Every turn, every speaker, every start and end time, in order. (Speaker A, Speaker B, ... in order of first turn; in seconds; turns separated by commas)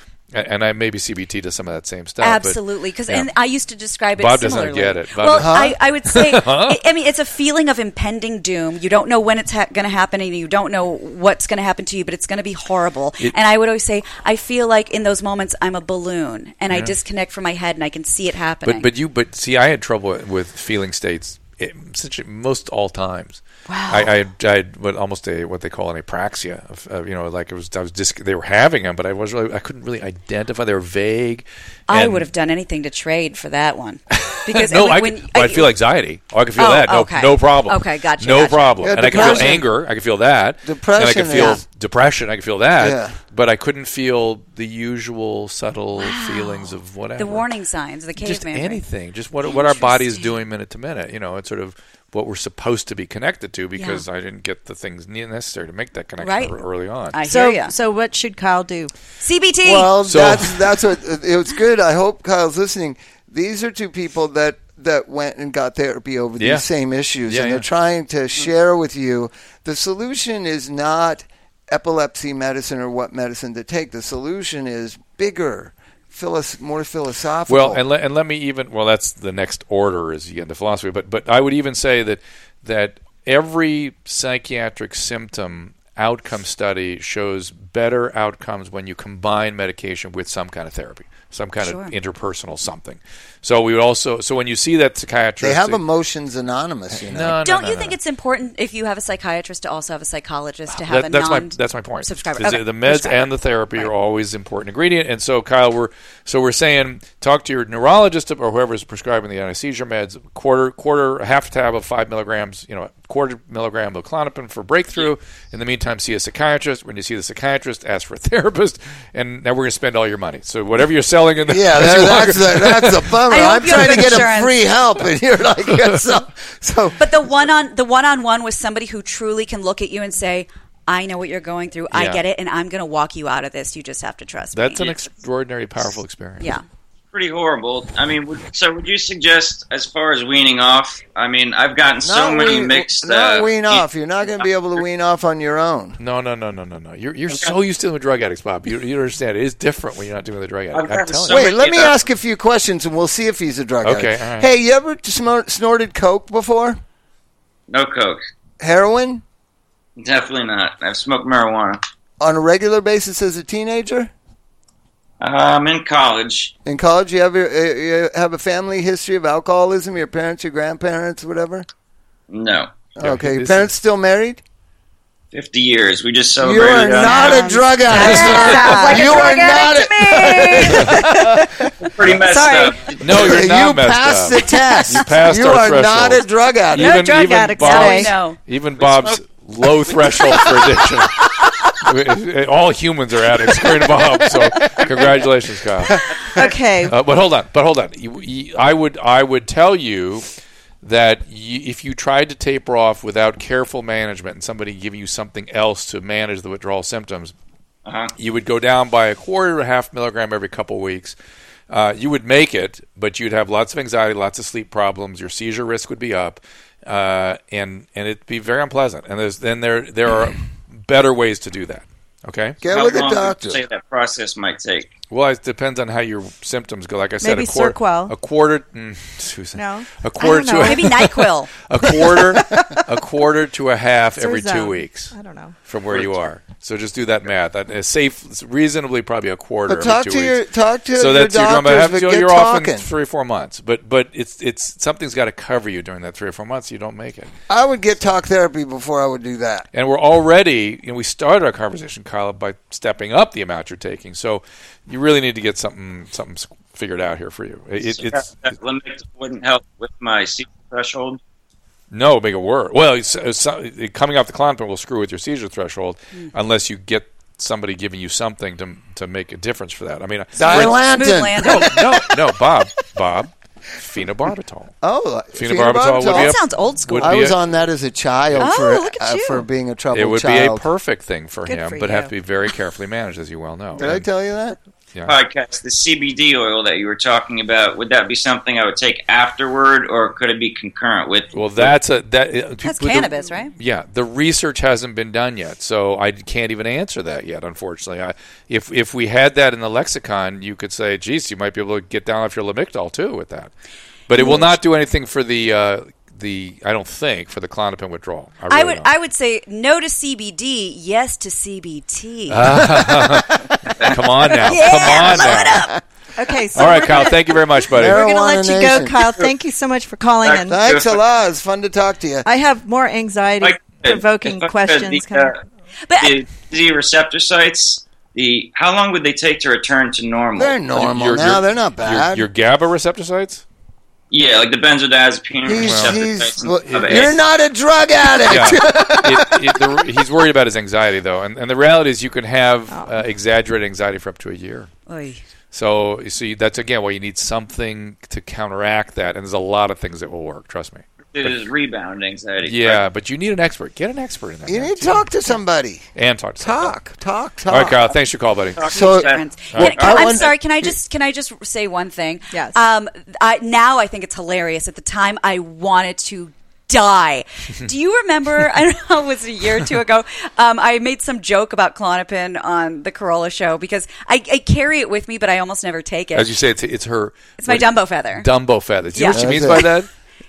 Speaker A: 0.3-3.3, Speaker B: 2.2-18.9, Speaker A: 4.2-6.8, Speaker C: 5.4-5.8, Speaker A: 16.7-16.9, Speaker A: 18.6-32.3, Speaker B: 23.7-24.1, Speaker B: 31.9-35.7, Speaker A: 34.1-47.5, Speaker B: 36.6-39.5, Speaker C: 38.8-39.7, Speaker C: 40.6-41.6, Speaker C: 42.8-43.2, Speaker B: 46.0-48.8, Speaker A: 48.2-57.2, Speaker B: 49.4-50.3, Speaker B: 53.8-54.0, Speaker B: 56.2-56.5, Speaker B: 57.1-57.8, Speaker D: 57.2-58.9, Speaker B: 59.2-60.0, Speaker C: 59.6-77.8, Speaker A: 60.0-60.6, Speaker A: 66.4-66.7, Speaker A: 67.3-67.7, Speaker A: 77.5-95.8, Speaker B: 91.6-91.9, Speaker C: 95.4-97.4, Speaker A: 97.0-98.0, Speaker B: 97.4-103.9, Speaker A: 100.7-123.2, Speaker C: 121.5-127.0, Speaker B: 123.3-124.5, Speaker A: 123.7-124.0, Speaker B: 127.0-134.9, Speaker A: 131.9-132.2, Speaker A: 134.5-136.5, Speaker E: 137.1-144.5, Speaker C: 142.0-146.0, Speaker A: 146.0-151.4, Speaker E: 150.7-152.0, Speaker C: 151.3-156.8, Speaker A: 153.8-154.5, Speaker E: 157.7-158.2, Speaker C: 158.6-159.2, Speaker E: 160.0-161.8, Speaker C: 162.2-164.1, Speaker E: 165.2-166.5, Speaker C: 166.7-171.7, Speaker E: 172.3-172.9, Speaker C: 173.0-174.4, Speaker A: 173.0-173.7, Speaker E: 175.3-177.7, Speaker C: 176.4-181.7, Speaker B: 176.9-181.1, Speaker D: 177.9-179.6, Speaker A: 177.9-178.6, Speaker D: 180.6-181.4, Speaker E: 181.8-183.1, Speaker D: 182.2-182.9, Speaker B: 182.3-182.7, Speaker A: 183.0-191.3, Speaker C: 183.1-186.9, Speaker D: 186.8-188.1, Speaker B: 186.8-188.4, Speaker E: 188.8-189.2, Speaker A: 191.8-196.0, Speaker D: 194.5-194.8, Speaker D: 196.2-197.0, Speaker A: 196.8-200.3, Speaker A: 200.8-207.3, Speaker E: 207.9-208.1, Speaker A: 208.2-211.2, Speaker A: 211.7-222.6, Speaker C: 222.6-223.6, Speaker E: 222.7-224.9, Speaker A: 225.1-235.1, Speaker D: 227.2-228.1, Speaker D: 229.5-231.0, Speaker B: 230.6-231.5, Speaker D: 231.8-232.8, Speaker D: 234.2-235.6, Speaker A: 235.7-240.4, Speaker C: 239.7-242.9, Speaker A: 241.0-247.3, Speaker C: 247.5-249.7, Speaker A: 249.7-258.5, Speaker E: 257.8-261.2, Speaker A: 261.9-270.9, Speaker C: 270.4-272.1, Speaker B: 270.5-271.8, Speaker A: 271.4-274.7, Speaker C: 274.8-276.4, Speaker A: 275.4-277.4, Speaker B: 276.1-277.2, Speaker C: 277.0-280.6, Speaker B: 278.4-279.4, Speaker A: 279.9-284.1, Speaker D: 281.4-282.1, Speaker C: 283.8-284.6, Speaker A: 284.9-285.2, Speaker E: 285.1-291.7, Speaker A: 291.3-303.5, Speaker B: 292.6-293.5, Speaker A: 304.1-308.9, Speaker B: 308.5-312.6, Speaker A: 312.3-315.7, Speaker C: 312.8-313.3, Speaker B: 314.4-315.8, Speaker D: 316.2-320.7, Speaker A: 316.6-318.1, Speaker C: 317.7-319.2, Speaker E: 320.2-321.0, Speaker C: 320.5-322.3, Speaker D: 322.2-325.4, Speaker E: 323.4-325.4, Speaker B: 325.9-326.2, Speaker E: 326.0-330.6, Speaker C: 330.4-332.3, Speaker A: 330.7-333.4, Speaker E: 334.1-337.2, Speaker C: 335.4-339.8, Speaker A: 335.6-336.0, Speaker A: 336.6-337.2, Speaker A: 338.2-344.7, Speaker D: 342.7-343.0, Speaker B: 344.9-345.2, Speaker A: 345.5-351.4, Speaker E: 351.1-352.8, Speaker A: 352.4-355.1, Speaker C: 354.5-355.9, Speaker A: 355.9-356.8, Speaker C: 356.4-357.9, Speaker A: 357.5-358.6, Speaker E: 358.6-360.3, Speaker C: 358.7-360.7, Speaker B: 358.7-376.3, Speaker A: 359.5-360.0, Speaker D: 362.3-362.6, Speaker A: 376.1-379.9, Speaker B: 377.4-378.3, Speaker B: 378.9-379.8, Speaker C: 379.1-379.7